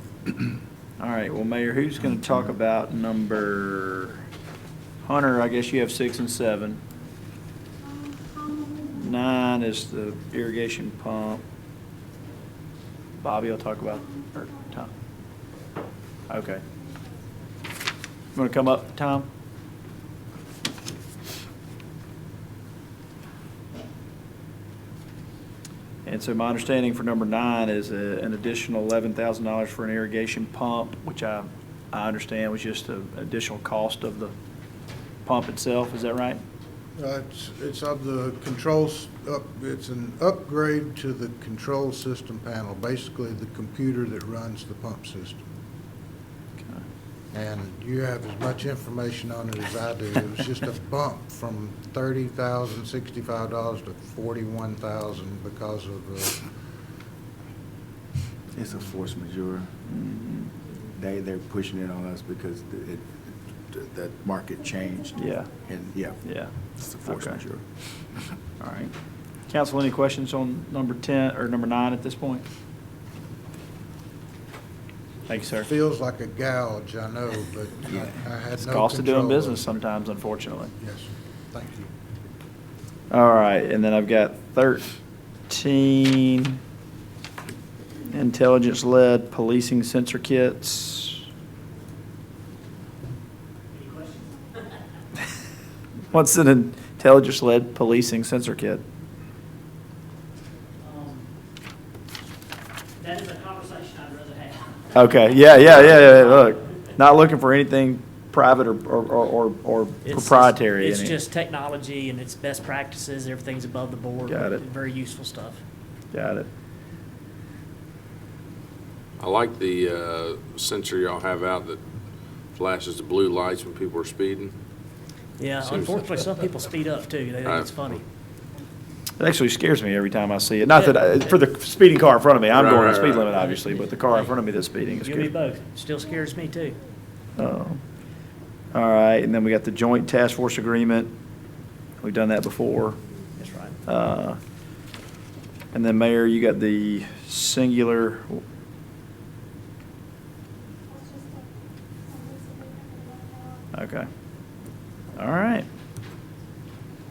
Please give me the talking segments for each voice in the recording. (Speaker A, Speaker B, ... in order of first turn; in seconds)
Speaker A: 1.0-4.2, 5.0-6.8, 8.8-11.4, 13.2-14.9, 16.3-16.6, 18.4-19.3, 26.1-34.3, 35.2-36.4, 59.9-60.5, 65.1-65.5, 66.2-66.5, 67.0-67.4, 68.6-68.9, 69.5-72.4, 75.3-75.7, 78.6-80.7, 83.1-84.9, 85.5-86.6, 88.1-91.3, 96.1-98.8, 104.9-111.2, 114.3-114.6, 116.1-116.5, 129.2-135.3, 137.4-137.8, 138.7-141.1, 142.0-143.0, 143.9-144.4, 145.7-148.4, 153.7-154.1, 155.2-155.7
Speaker B: 37.0-45.4, 47.3-56.5, 75.6-79.7, 80.8-81.9
Speaker C: 58.5-59.7, 60.9-66.2, 66.8-67.7, 77.9-78.2
Speaker D: 93.7-94.7, 100.8-101.3, 103.0-106.8, 110.0-115.6, 125.4-128.0, 130.8-131.3, 133.3-134.3, 135.0-136.8, 143.4-143.8
Speaker E: 119.2-121.8, 122.5-124.5, 125.6-126.4, 127.4-128.0, 132.5-133.4